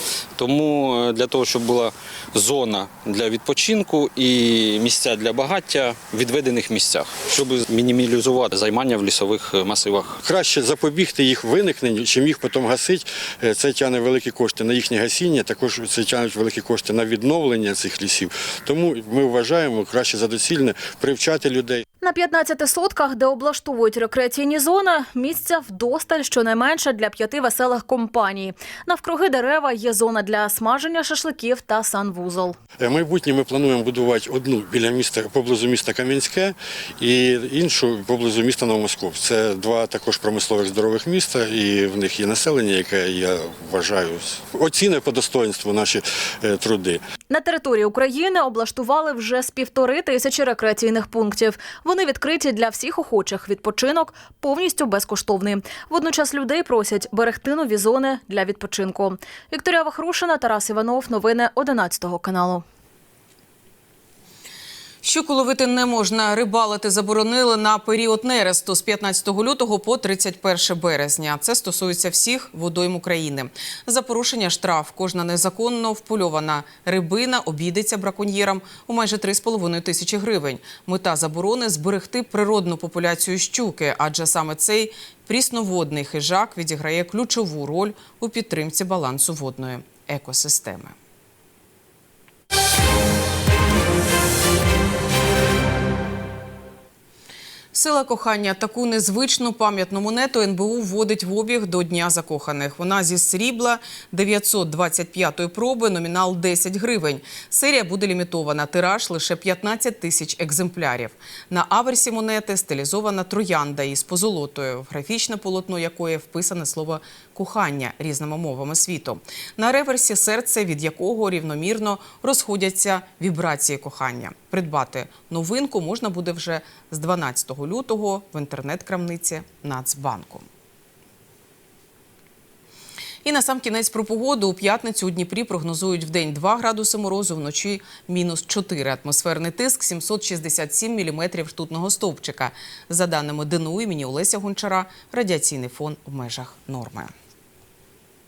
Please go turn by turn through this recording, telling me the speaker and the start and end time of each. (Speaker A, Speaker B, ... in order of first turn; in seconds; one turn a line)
Speaker A: 0.4-10.2
Speaker B: 10.2-21.8
Speaker C: 22.0-32.6
Speaker B: 32.8-47.0
Speaker C: 47.3-62.6
Speaker D: 65.0-91.0
Speaker D: 97.7-130.5
Speaker D: 133.2-147.1